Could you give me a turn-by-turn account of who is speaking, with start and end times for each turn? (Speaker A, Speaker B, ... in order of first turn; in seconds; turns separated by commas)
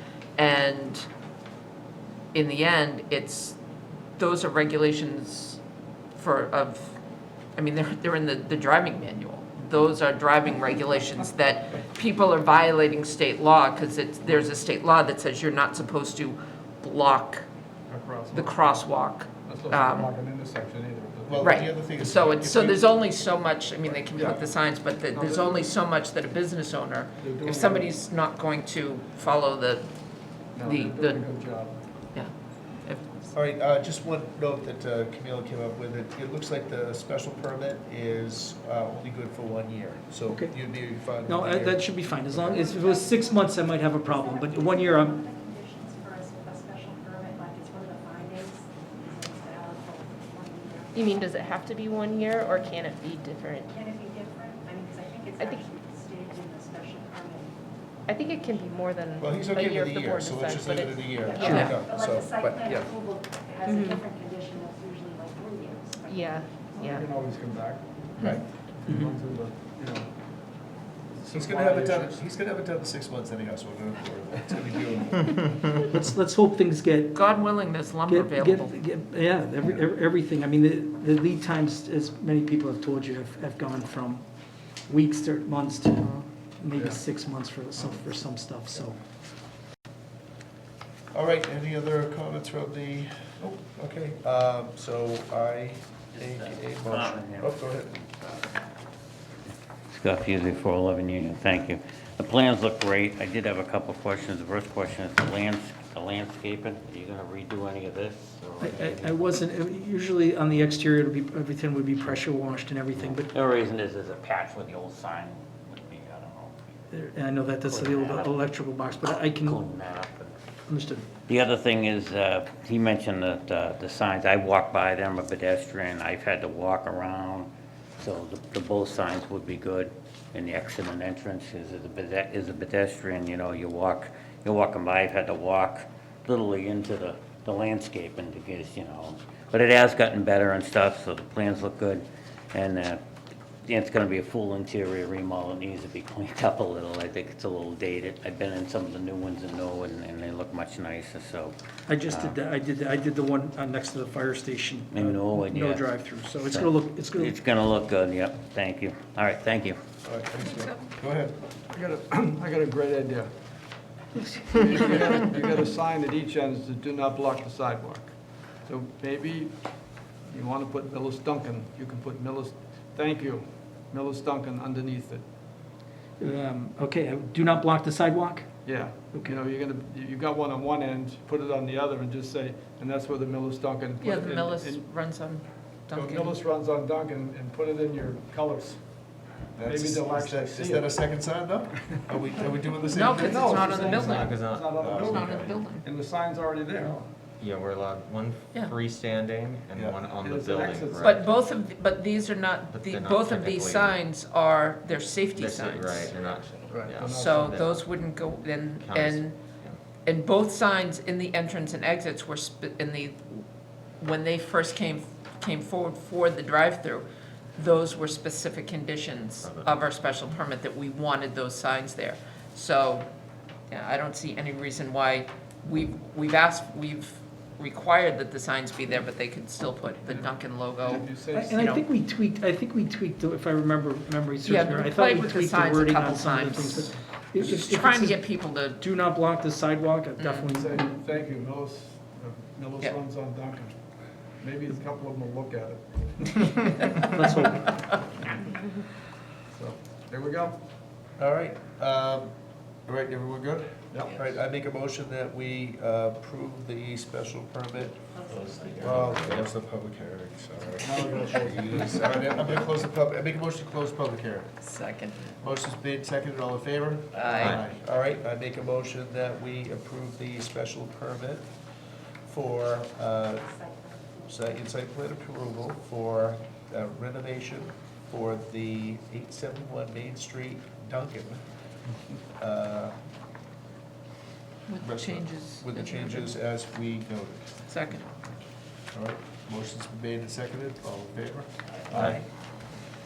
Speaker A: 0.4-1.1, Speaker A: 2.3-3.6, Speaker A: 4.2-5.6, Speaker A: 6.1-7.0, Speaker A: 7.6-17.4, Speaker B: 17.9-21.6, Speaker A: 18.3-20.1, Speaker C: 21.3-23.1, Speaker A: 21.4-29.9, Speaker C: 23.9-24.3, Speaker B: 24.1-25.7, Speaker B: 27.2-28.0, Speaker A: 30.5-31.3, Speaker B: 30.5-31.8, Speaker A: 32.1-33.3, Speaker C: 33.3-42.7, Speaker D: 40.3-45.2, Speaker E: 42.6-51.7, Speaker F: 50.9-53.7, Speaker E: 53.7-57.5, Speaker F: 55.4-55.6, Speaker F: 58.1-61.7, Speaker C: 59.2-62.9, Speaker E: 61.2-66.7, Speaker D: 61.4-61.7, Speaker F: 63.6-64.0, Speaker F: 66.1-67.0, Speaker B: 66.7-70.1, Speaker C: 68.2-68.5, Speaker B: 71.1-72.2, Speaker C: 71.3-75.3, Speaker D: 75.7-77.3, Speaker A: 77.1-78.7, Speaker D: 78.0-89.0, Speaker A: 86.0-86.3, Speaker B: 86.7-87.0, Speaker C: 91.1-98.0, Speaker G: 96.1-97.8, Speaker G: 99.9-109.2, Speaker D: 108.6-113.3, Speaker G: 112.9-116.5, Speaker D: 116.9-119.6, Speaker G: 117.6-118.4, Speaker G: 118.9-120.3, Speaker D: 120.7-121.1, Speaker G: 121.3-143.0, Speaker G: 143.6-152.4, Speaker D: 151.9-157.3, Speaker G: 154.9-159.8, Speaker C: 160.0-161.4, Speaker B: 161.7-163.3, Speaker D: 164.1-164.6, Speaker B: 164.5-175.2, Speaker D: 176.2-179.4, Speaker B: 178.6-184.9, Speaker A: 184.0-186.3, Speaker B: 186.0-191.1, Speaker C: 189.5-194.2, Speaker A: 192.9-195.8, Speaker B: 193.1-197.1, Speaker H: 194.0-194.8, Speaker C: 194.8-195.6, Speaker H: 197.4-201.5, Speaker B: 200.1-201.2, Speaker A: 201.0-206.1, Speaker H: 202.7-204.1, Speaker H: 205.3-208.1, Speaker B: 206.6-207.8, Speaker A: 207.0-209.4, Speaker H: 208.8-209.8, Speaker A: 210.0-213.4, Speaker A: 214.0-223.1, Speaker H: 219.4-219.8, Speaker A: 223.7-231.8, Speaker B: 230.0-231.6, Speaker D: 231.3-240.9, Speaker A: 234.4-238.8, Speaker A: 240.2-240.5, Speaker B: 240.5-246.7, Speaker D: 247.1-248.1, Speaker B: 249.5-250.6, Speaker C: 251.2-252.3, Speaker C: 252.8-258.1, Speaker B: 253.9-254.4, Speaker H: 258.3-259.4, Speaker C: 258.8-264.6, Speaker B: 258.9-259.1, Speaker B: 260.8-262.3, Speaker A: 264.6-265.2, Speaker C: 265.4-271.5, Speaker A: 267.1-267.6, Speaker H: 267.4-267.6, Speaker C: 272.2-273.6, Speaker C: 274.2-281.4, Speaker C: 282.4-282.9, Speaker A: 284.7-286.3, Speaker C: 284.8-287.4, Speaker A: 287.7-288.1, Speaker C: 288.9-292.2, Speaker B: 291.9-292.2, Speaker H: 291.9-292.2